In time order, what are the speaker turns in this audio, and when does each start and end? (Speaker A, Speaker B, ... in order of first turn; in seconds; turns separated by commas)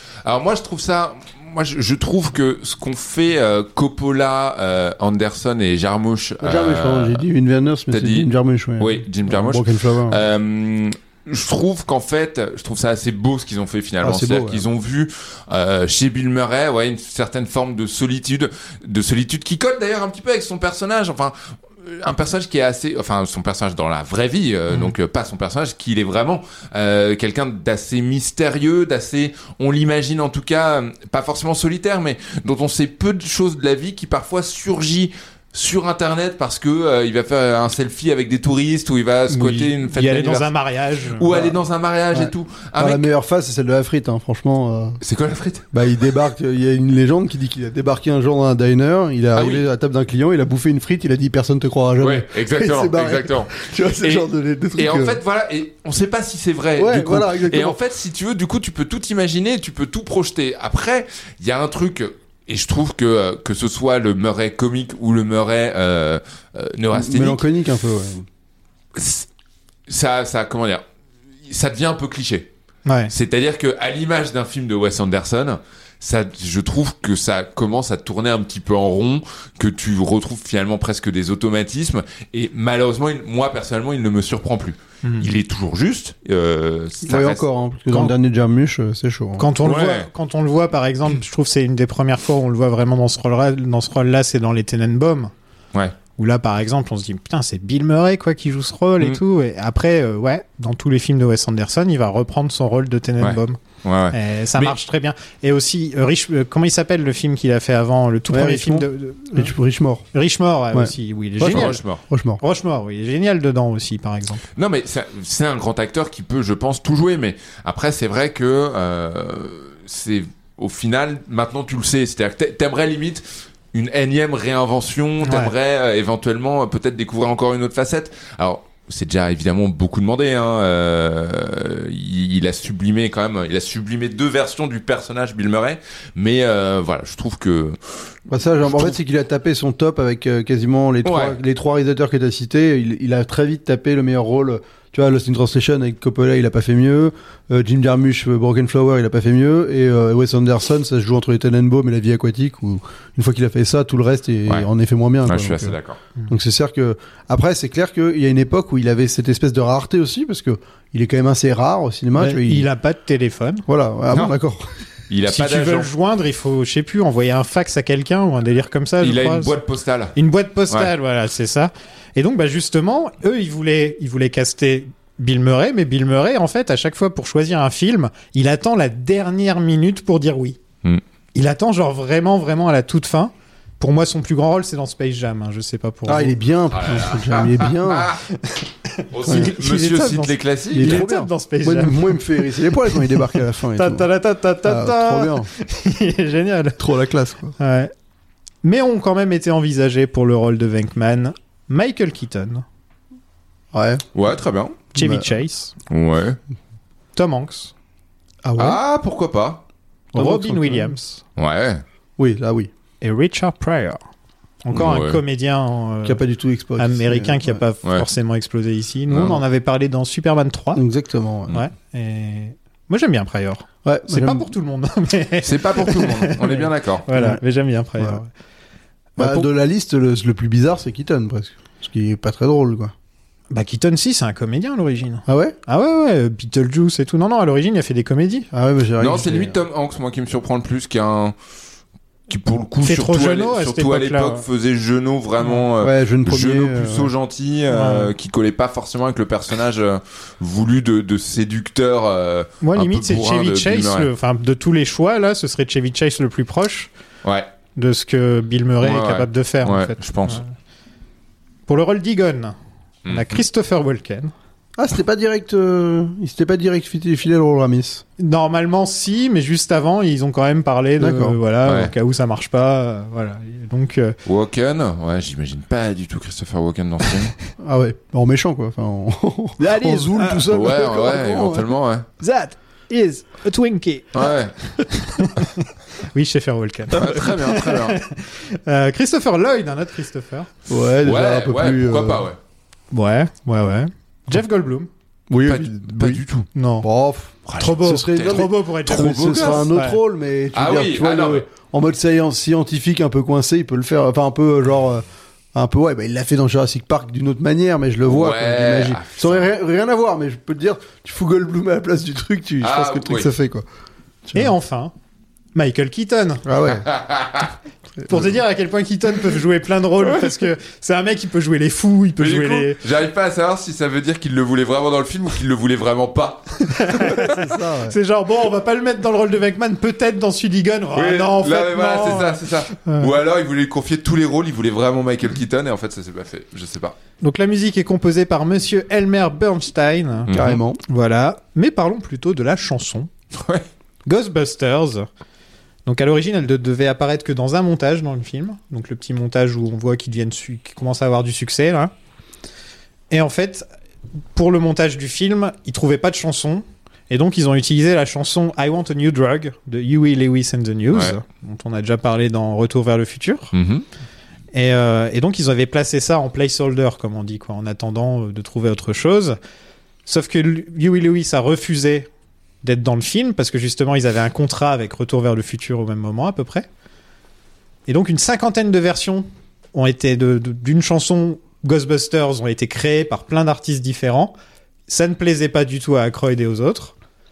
Speaker A: 0.2-7.2, Speaker B: 6.4-10.2, Speaker A: 7.9-40.5, Speaker B: 14.0-14.7, Speaker C: 39.3-41.3, Speaker A: 41.1-43.1, Speaker B: 41.3-41.5, Speaker B: 42.1-45.0, Speaker A: 45.0-45.7, Speaker B: 45.7-55.2, Speaker A: 49.3-49.6, Speaker A: 52.0-67.4, Speaker B: 56.8-57.8, Speaker B: 66.9-68.2, Speaker A: 68.9-69.2, Speaker A: 69.9-70.8, Speaker A: 71.5-72.5, Speaker C: 72.8-73.1, Speaker A: 73.1-87.4, Speaker B: 87.0-89.5, Speaker C: 89.4-95.3, Speaker A: 89.6-90.1, Speaker C: 96.2-103.6, Speaker A: 103.2-104.8, Speaker C: 104.1-109.5, Speaker B: 108.3-110.0, Speaker C: 110.1-111.8, Speaker B: 110.7-112.4, Speaker A: 111.4-112.0, Speaker C: 112.4-114.4, Speaker A: 114.5-137.8, Speaker C: 125.2-125.5, Speaker B: 138.3-155.8, Speaker A: 138.7-139.0, Speaker A: 141.0-141.4, Speaker A: 155.2-156.0, Speaker B: 156.3-162.7, Speaker C: 162.2-163.6, Speaker B: 163.7-164.7, Speaker A: 165.1-165.9, Speaker C: 165.2-169.6, Speaker A: 169.0-170.2, Speaker C: 170.2-180.6, Speaker C: 181.3-186.3, Speaker B: 186.1-188.1, Speaker A: 186.7-188.2, Speaker A: 189.1-191.0, Speaker C: 189.2-193.1, Speaker B: 190.7-194.1, Speaker C: 193.7-196.8, Speaker B: 194.6-195.5, Speaker B: 196.8-197.5, Speaker C: 197.6-197.9, Speaker C: 198.6-202.6, Speaker B: 203.7-204.0, Speaker A: 204.1-204.8, Speaker B: 204.9-205.3, Speaker C: 204.9-205.7, Speaker A: 205.9-206.4, Speaker C: 207.1-207.7, Speaker B: 208.4-208.8, Speaker A: 208.6-209.6, Speaker B: 210.1-210.9, Speaker C: 210.1-211.2, Speaker A: 211.4-211.8, Speaker B: 212.2-212.7, Speaker C: 213.0-214.0, Speaker C: 214.6-216.2, Speaker A: 214.7-215.2, Speaker B: 216.0-217.6, Speaker C: 216.8-220.8, Speaker A: 219.1-219.4, Speaker B: 220.7-221.5, Speaker C: 221.5-228.3, Speaker B: 223.8-224.5, Speaker A: 225.4-227.1, Speaker B: 227.1-227.4, Speaker C: 229.2-229.5, Speaker B: 229.2-232.9, Speaker C: 233.5-238.5, Speaker B: 235.3-235.6, Speaker B: 238.5-239.6, Speaker A: 239.0-241.3, Speaker A: 242.3-254.1, Speaker C: 242.8-244.4, Speaker B: 245.8-247.1, Speaker C: 247.7-248.1, Speaker C: 252.6-256.9, Speaker A: 257.2-257.5, Speaker C: 257.8-260.4, Speaker A: 258.8-260.4, Speaker C: 261.7-262.5, Speaker A: 263.1-263.4, Speaker C: 263.1-264.3, Speaker B: 264.8-268.0, Speaker C: 268.2-274.1, Speaker B: 271.0-271.4, Speaker A: 271.6-271.9, Speaker A: 274.2-277.3, Speaker B: 277.6-281.8, Speaker C: 279.6-280.5, Speaker A: 280.5-282.1, Speaker C: 282.2-284.2, Speaker A: 284.1-284.5, Speaker C: 284.8-290.5, Speaker A: 286.9-288.0, Speaker B: 290.7-292.3, Speaker A: 291.0-292.4, Speaker C: 292.9-294.9, Speaker B: 295.3-296.2, Speaker A: 295.4-296.5, Speaker C: 296.6-296.9, Speaker B: 296.8-313.6, Speaker A: 297.5-299.7, Speaker C: 297.6-300.0, Speaker A: 300.5-301.4, Speaker A: 308.1-309.5, Speaker A: 312.6-313.3, Speaker B: 314.3-314.5, Speaker C: 314.3-314.9, Speaker C: 315.5-316.4, Speaker B: 316.4-316.9, Speaker A: 316.7-317.5, Speaker C: 318.1-322.8, Speaker A: 322.2-327.2, Speaker C: 326.7-333.1, Speaker B: 327.3-328.0, Speaker A: 330.9-336.9, Speaker C: 337.2-340.3, Speaker A: 340.3-340.6, Speaker B: 340.3-340.8, Speaker C: 340.9-343.1, Speaker A: 343.3-343.6, Speaker C: 344.1-345.1, Speaker C: 345.9-351.9, Speaker C: 353.1-353.6, Speaker C: 354.3-363.5, Speaker A: 363.5-363.8, Speaker C: 364.5-369.4, Speaker C: 370.1-372.1, Speaker C: 372.6-376.7, Speaker C: 377.9-384.3, Speaker C: 384.9-386.9